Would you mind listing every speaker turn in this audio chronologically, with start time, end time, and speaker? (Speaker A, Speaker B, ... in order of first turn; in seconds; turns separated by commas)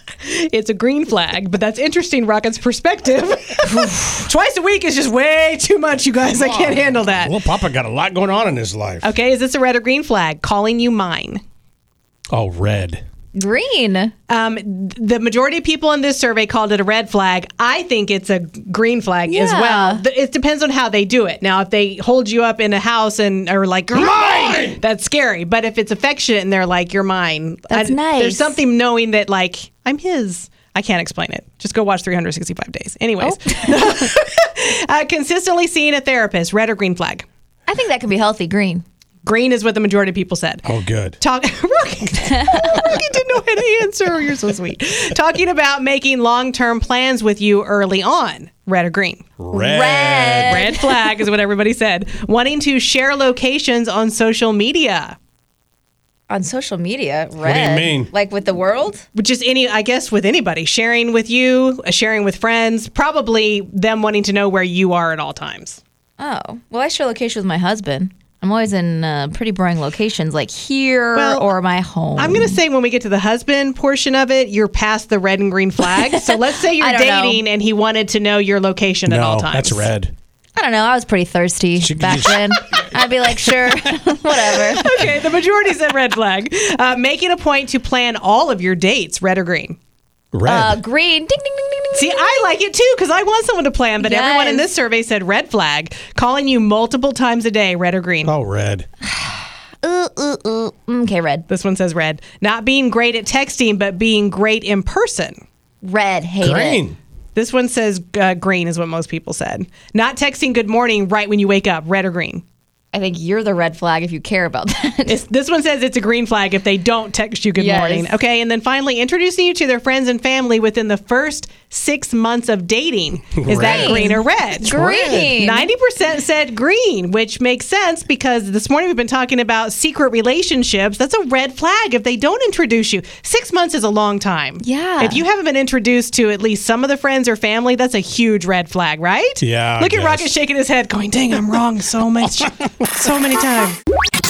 Speaker A: 0.2-7.4, Speaker B: 3.7-4.2, Speaker C: 6.2-9.1, Speaker A: 9.0-11.4, Speaker C: 12.3-13.0, Speaker B: 13.3-14.1, Speaker A: 14.3-37.2, Speaker B: 19.3-20.0, Speaker C: 23.9-24.8, Speaker B: 27.7-28.6, Speaker B: 33.2-34.1, Speaker B: 37.6-38.8, Speaker A: 39.2-49.2, Speaker C: 40.6-41.1, Speaker B: 42.4-43.0, Speaker C: 49.4-50.7, Speaker B: 49.5-51.1, Speaker A: 50.4-55.2, Speaker B: 56.3-59.0, Speaker C: 57.4-58.1, Speaker A: 59.1-65.8, Speaker B: 66.2-72.6, Speaker A: 71.1-71.5, Speaker A: 72.2-79.9, Speaker B: 76.1-77.4, Speaker C: 79.1-80.1, Speaker B: 80.5-85.0, Speaker C: 81.8-82.8, Speaker A: 84.8-89.8, Speaker C: 90.3-90.8, Speaker B: 90.4-92.4, Speaker A: 91.9-98.3, Speaker B: 94.0-94.7, Speaker C: 98.2-98.8, Speaker B: 99.0-101.4, Speaker A: 101.5-105.4, Speaker B: 105.8-106.8, Speaker C: 106.4-107.0, Speaker A: 107.3-112.4, Speaker B: 112.9-115.2, Speaker A: 115.1-143.8, Speaker B: 117.5-118.1, Speaker C: 123.3-125.3, Speaker B: 123.5-125.7, Speaker B: 134.6-135.2, Speaker C: 139.4-140.3